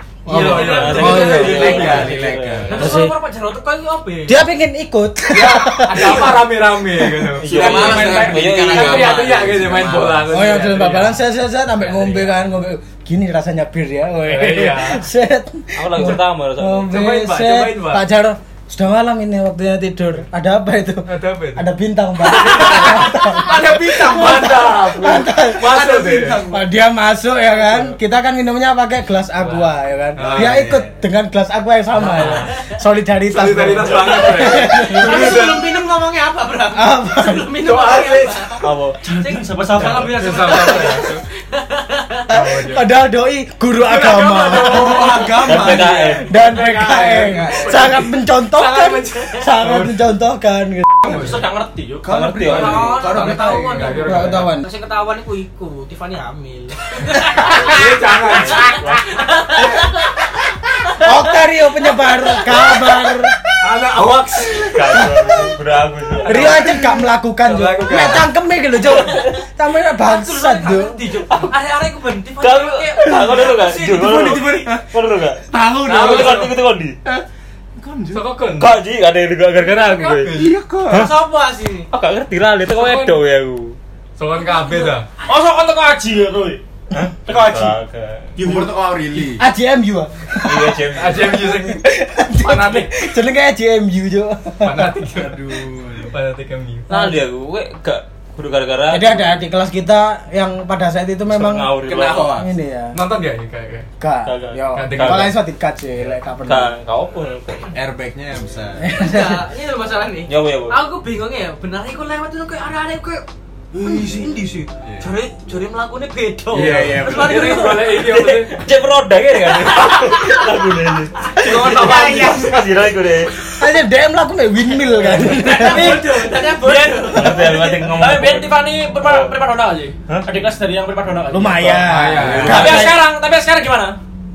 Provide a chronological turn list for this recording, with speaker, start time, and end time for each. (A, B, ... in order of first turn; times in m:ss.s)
0:00.3-0:01.9 A
0:00.3-0:01.9 B
0:00.3-0:02.2 C
0:00.5-0:03.1 D
0:01.0-0:03.0 E
0:02.7-0:04.4 C
0:02.8-0:03.1 A
0:04.3-0:07.4 A
0:05.3-0:11.2 B
0:07.4-0:09.7 D
0:07.5-0:10.5 E
0:10.3-0:35.5 A
0:11.8-0:12.4 B
0:14.3-0:15.1 B
0:15.8-0:17.0 D
0:16.9-0:18.0 B
0:21.1-0:21.7 B
0:22.4-0:23.4 C
0:22.6-0:26.4 B
0:23.4-0:24.7 E
0:25.6-0:26.7 E
0:27.6-0:28.0 B
0:29.4-0:30.7 B
0:30.2-0:30.9 E
0:31.9-0:32.5 B
0:33.3-0:35.7 B
0:34.2-0:42.3 C
0:36.8-0:37.5 A
0:37.6-0:38.4 B
0:38.6-0:39.0 D
0:39.0-0:40.5 F
0:39.8-0:41.2 B
0:42.3-0:43.0 B
0:42.3-0:51.3 A
0:43.9-0:45.2 B
0:44.2-0:48.1 E
0:45.4-0:46.3 D
0:48.5-0:50.0 B
0:51.0-0:51.4 B
0:51.1-0:52.1 F
0:52.0-0:54.2 E
0:52.1-0:53.2 D
0:52.5-0:57.8 C
0:53.7-0:54.6 B
0:54.0-0:54.7 A
0:57.6-0:58.8 B
0:58.3-1:01.4 C
0:58.4-0:59.3 D
1:01.0-1:03.4 A
1:02.0-1:02.8 C
1:03.6-1:04.7 B
1:04.6-1:06.8 D
1:04.9-1:05.4 A
1:06.3-1:11.0 A
1:07.4-1:08.3 B
1:08.9-1:09.3 D
1:10.0-1:14.6 C
1:12.4-1:17.0 D
1:13.8-1:14.9 E
1:15.5-1:16.5 E
1:15.9-1:16.5 B
1:17.8-1:18.4 E
1:18.1-1:18.8 B
1:18.6-1:20.3 D
1:20.2-1:21.1 E
1:20.9-1:21.9 C
1:20.9-1:21.2 D
1:21.9-1:23.8 D
1:22.7-1:23.2 B
1:24.2-1:25.1 B
1:24.6-1:24.9 C
1:25.2-1:26.6 F
1:26.9-1:28.3 D
1:27.3-1:27.8 F
1:28.4-1:28.7 F
1:28.4-1:29.4 E
1:29.2-1:35.0 A
1:30.4-1:31.4 D
1:31.0-1:31.8 B
1:32.4-1:32.9 B
1:34.6-1:35.4 B
1:35.1-1:36.2 E
1:36.0-1:36.9 B
1:36.9-1:39.4 D
1:36.9-1:37.2 A
1:38.9-1:41.8 A
1:41.3-1:42.4 D
1:41.8-1:42.5 E
1:42.3-1:43.0 A
1:42.9-1:43.9 B
1:44.0-1:46.7 A
1:44.3-1:45.3 D
1:44.7-1:45.4 B
1:46.4-1:47.7 D
1:47.7-1:48.9 E
1:48.8-1:49.4 A
1:48.9-1:53.2 C
1:50.3-1:50.8 D
1:53.7-1:55.1 E
1:53.8-1:58.0 C
1:56.5-1:57.7 E
1:56.5-1:58.6 B
1:57.9-2:03.3 D
1:59.7-2:00.4 C
2:01.2-2:02.6 C
2:01.4-2:02.3 F
2:01.5-2:02.6 E
2:03.5-2:06.2 A
2:05.2-2:07.7 C
2:06.4-2:14.0 F
2:07.1-2:09.3 D
2:11.3-2:13.0 A
2:11.8-2:12.8 B
2:12.2-2:13.0 D